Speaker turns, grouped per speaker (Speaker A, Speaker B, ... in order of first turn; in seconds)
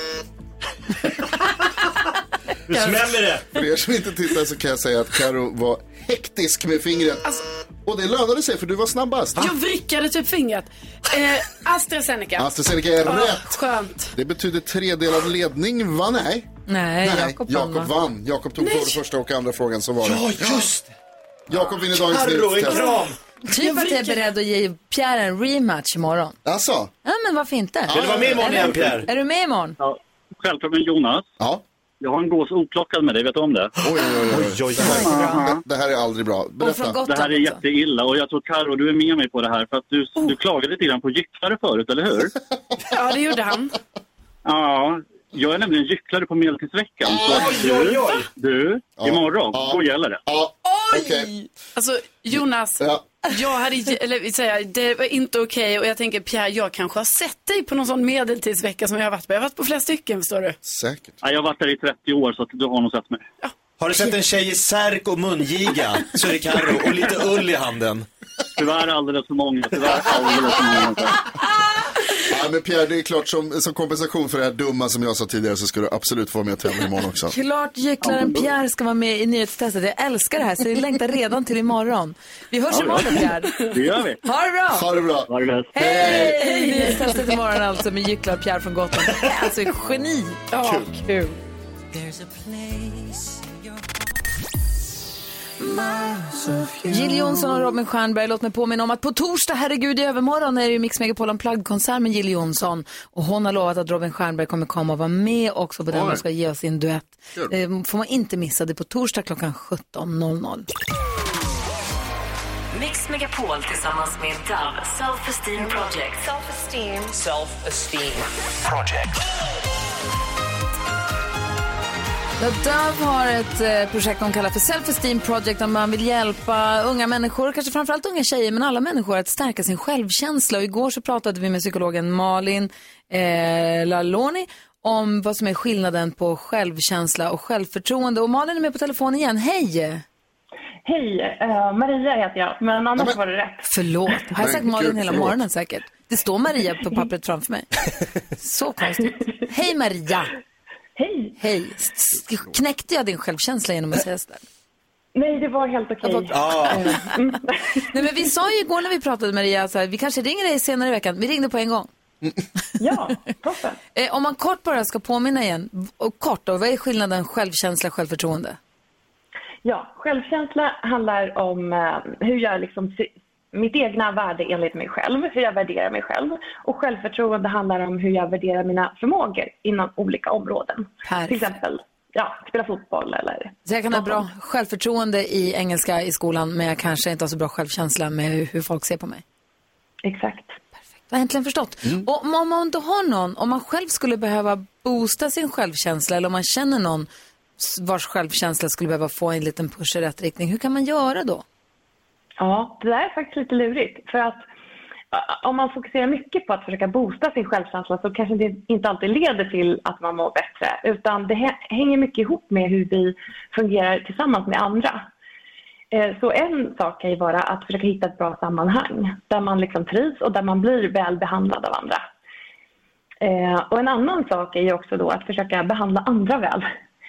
Speaker A: 2.7-3.5, 20.0-20.9, 21.5-23.2, 27.9-29.1, 34.3-35.4, 47.1-48.3, 63.8-68.0, 156.3-156.9
Speaker B: 3.5-9.5, 12.4-13.6, 14.1-16.5, 17.0-20.7, 21.5-22.9, 26.4-26.9, 27.9-28.9, 33.8-37.0, 47.0-47.6, 49.0-51.3, 52.8-53.0, 60.6-61.2, 72.3-77.3, 84.7-86.4, 105.9-106.2, 144.4-145.4
Speaker C: 9.4-12.5, 13.0-14.1, 18.6-19.0, 23.6-24.2, 42.9-43.7, 51.7-60.6, 86.5-87.0, 90.5-91.2
Speaker D: 16.7-17.9, 23.5-26.4, 27.0-29.8, 34.8-35.5, 36.6-37.6, 77.3-83.7, 84.2-84.9, 85.7-90.5, 96.9-110.7, 122.4-140.0, 143.6-147.7, 148.4-150.3, 151.4-154.4, 156.0-157.2, 157.9-161.9, 163.9-168.6, 181.1-181.5, 183.7-189.2, 191.1-201.4
Speaker E: 29.8-31.3, 32.0-33.7, 35.1-35.4, 37.0-42.3, 44.4-50.2, 61.2-63.3, 68.6-71.2, 78.0-78.5, 82.7-84.2, 85.3-85.7
Speaker F: 112.7-119.1
Speaker G: 140.8-143.6, 150.9-151.4, 155.1-158.1, 162.8-163.8, 169.6-184.2, 190.0-190.6, 202.4-204.4, 205.1-215.0, 215.9-222.0, 223.2-226.7